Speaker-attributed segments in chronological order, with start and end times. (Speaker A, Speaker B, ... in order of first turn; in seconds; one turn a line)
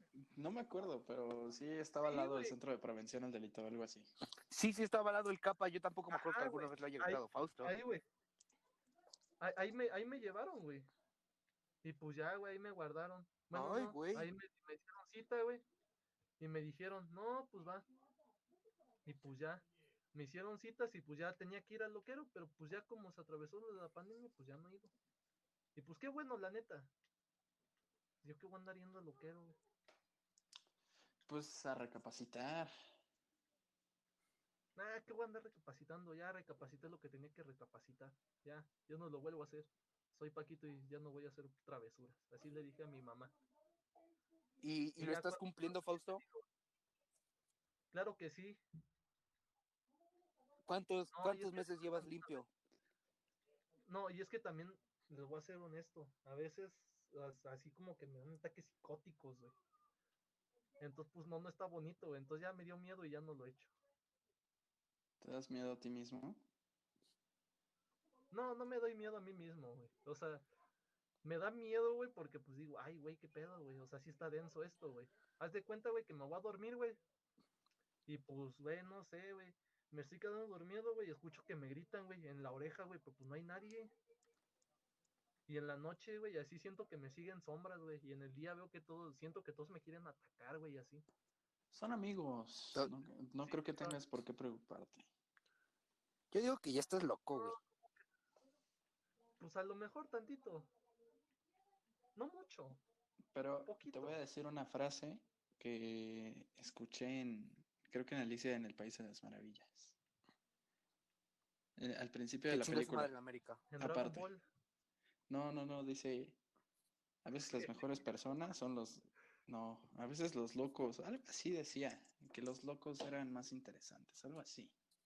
Speaker A: 0.2-4.1
Speaker B: 2.0-2.5
Speaker C: 4.5-7.7
Speaker B: 6.1-8.0
Speaker B: 9.4-10.9
Speaker B: 11.8-15.6
Speaker C: 13.5-14.3
Speaker B: 16.4-17.8
Speaker B: 19.0-24.9
Speaker B: 25.8-26.9
Speaker B: 28.2-29.6
Speaker A: 31.3-32.7
Speaker B: 34.8-43.3
Speaker C: 44.6-46.2
Speaker B: 45.0-46.4
Speaker B: 47.9-48.6
Speaker C: 50.7-52.5
Speaker B: 51.1-52.4
Speaker B: 53.9-59.5
Speaker B: 60.8-63.7
Speaker A: 65.2-66.4
Speaker B: 68.3-70.5
Speaker B: 71.2-77.0
Speaker B: 78.1-83.9
Speaker B: 85.5-91.0
Speaker A: 91.7-95.1
Speaker B: 93.4-94.0
Speaker C: 96.3-97.5
Speaker B: 97.3-97.6
Speaker B: 99.4-100.7
Speaker B: 102.2-102.8
Speaker A: 103.3-109.9
Speaker B: 103.6-104.2
Speaker A: 111.8-113.1
Speaker C: 112.5-113.6
Speaker B: 113.7-114.4
Speaker A: 113.8-114.3
Speaker A: 115.3-116.4
Speaker A: 117.2-124.7
Speaker B: 117.5-118.3